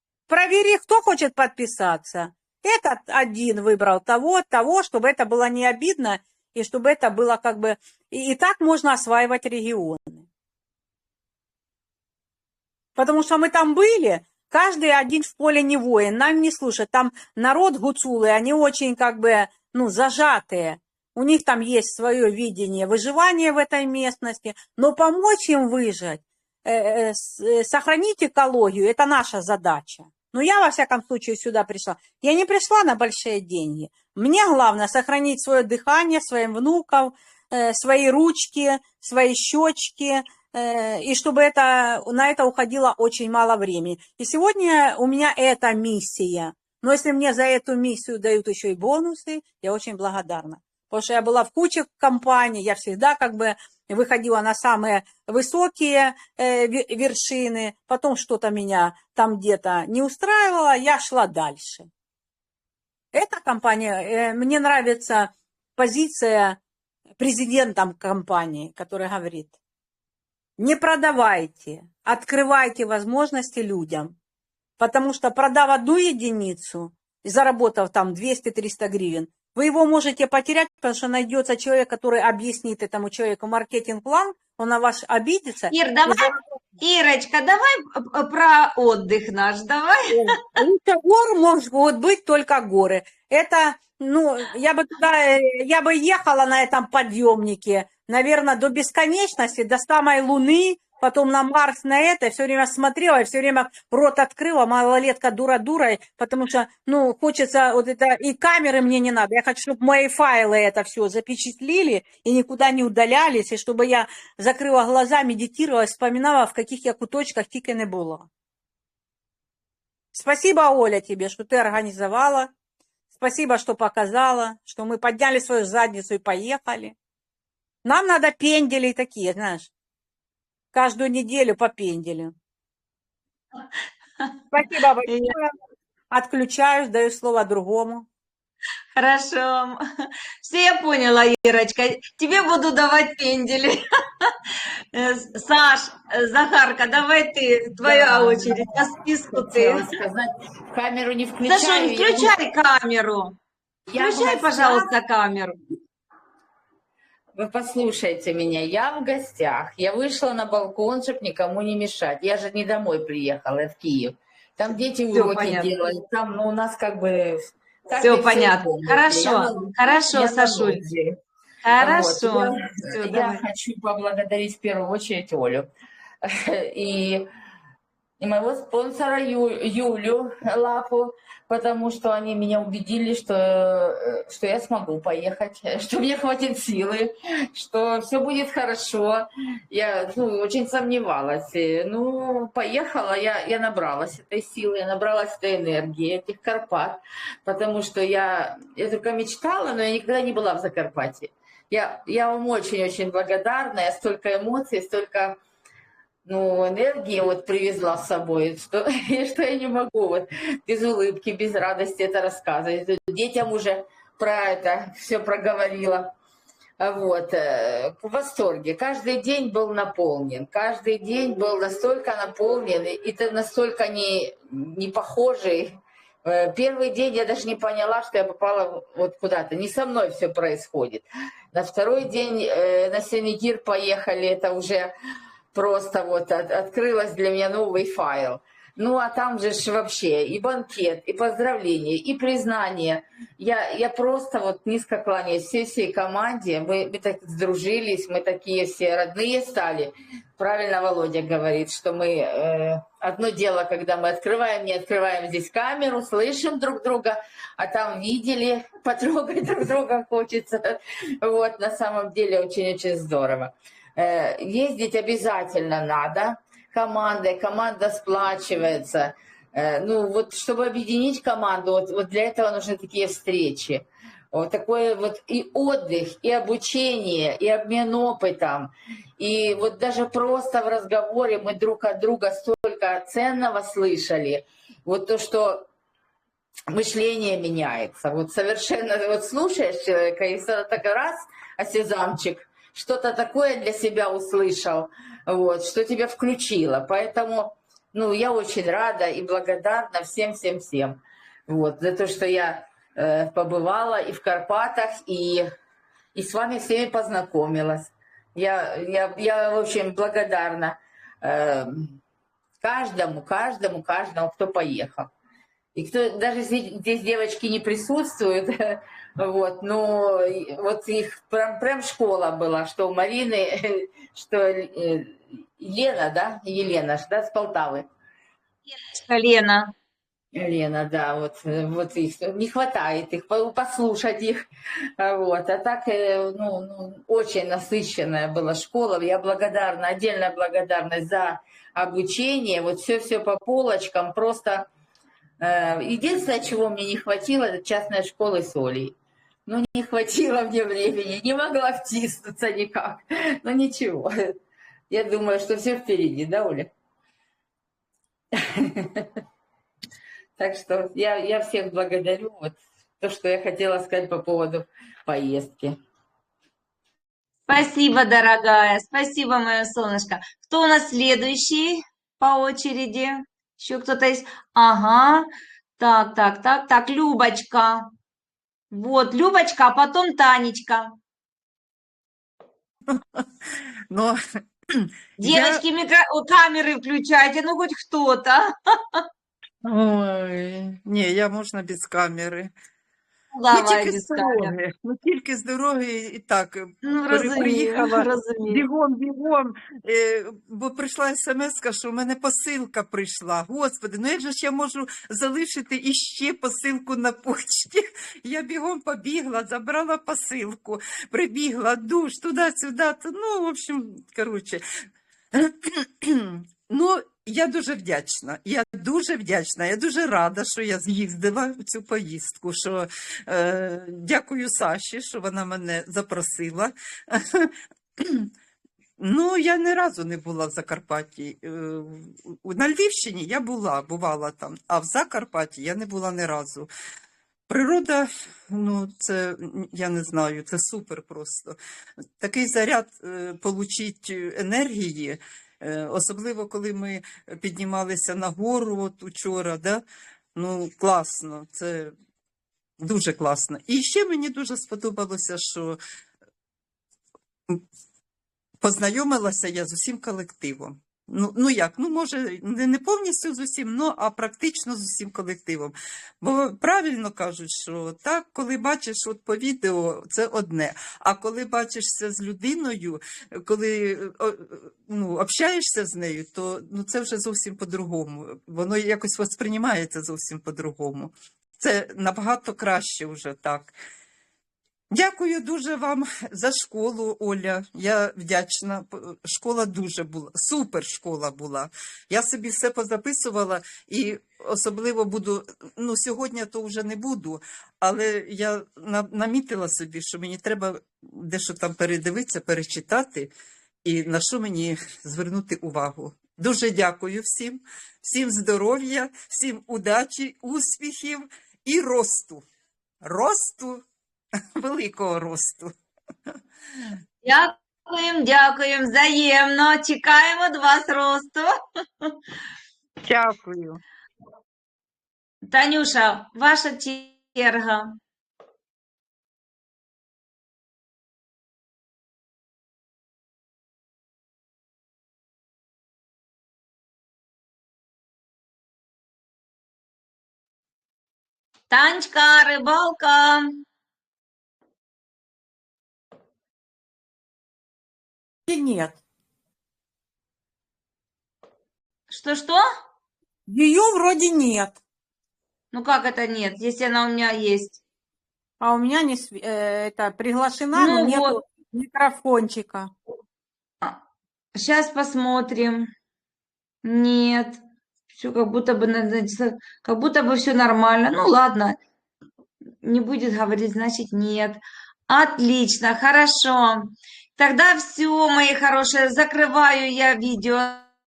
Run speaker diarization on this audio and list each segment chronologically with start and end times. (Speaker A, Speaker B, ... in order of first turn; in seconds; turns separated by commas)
Speaker A: 0.3-10.2, Speaker A: 12.9-61.9, Speaker A: 63.1-66.6, Speaker A: 67.2-69.5, Speaker A: 70.6-74.1, Speaker A: 74.8-86.4, Speaker B: 85.7-90.4, Speaker A: 90.1-118.3, Speaker A: 120.1-122.5, Speaker A: 123.1-127.0, Speaker A: 127.8-129.7, Speaker A: 130.7-132.3, Speaker A: 134.5-135.6, Speaker B: 135.1-135.3, Speaker A: 136.1-138.1, Speaker B: 138.9-144.3, Speaker B: 144.9-149.9, Speaker C: 147.8-152.3, Speaker B: 151.4-153.3, Speaker C: 153.9-154.9, Speaker B: 154.0-155.6, Speaker C: 157.3-171.2, Speaker B: 165.1-165.8, Speaker B: 168.0-170.8, Speaker B: 171.6-173.4, Speaker C: 171.8-175.7, Speaker C: 176.2-177.3, Speaker C: 178.2-205.4, Speaker C: 206.2-216.1, Speaker C: 216.8-234.9, Speaker C: 235.5-285.7, Speaker C: 286.7-305.5, Speaker C: 306.1-312.0, Speaker C: 312.6-315.1, Speaker C: 315.7-327.9, Speaker B: 328.7-329.7, Speaker C: 330.3-334.4, Speaker C: 335.0-344.7, Speaker C: 345.4-354.3, Speaker C: 354.9-356.7, Speaker C: 358.3-359.1, Speaker C: 360.4-365.8, Speaker B: 367.5-375.3, Speaker B: 375.8-377.9, Speaker B: 378.7-380.9, Speaker D: 382.9-383.2, Speaker D: 383.9-384.2, Speaker D: 384.8-385.6, Speaker B: 385.2-389.1, Speaker D: 389.6-392.5, Speaker B: 393.3-394.5, Speaker D: 393.5-414.6, Speaker B: 396.8-398.6, Speaker D: 415.3-428.3, Speaker D: 429.0-436.7, Speaker D: 437.5-441.6, Speaker D: 442.2-449.8, Speaker D: 450.3-451.9, Speaker D: 452.8-455.8, Speaker D: 458.6-483.7, Speaker D: 484.9-503.3, Speaker D: 503.8-512.4, Speaker D: 513.0-513.8, Speaker D: 514.6-515.7, Speaker B: 517.2-522.2, Speaker D: 523.0-523.8, Speaker B: 525.5-528.0, Speaker B: 541.7-543.6, Speaker A: 548.5-549.0, Speaker B: 552.1-552.6, Speaker A: 553.5-554.8, Speaker B: 555.7-557.8, Speaker A: 558.6-562.9, Speaker B: 560.7-561.4, Speaker B: 564.5-565.9, Speaker B: 566.8-567.6, Speaker B: 568.1-571.8, Speaker B: 572.8-580.9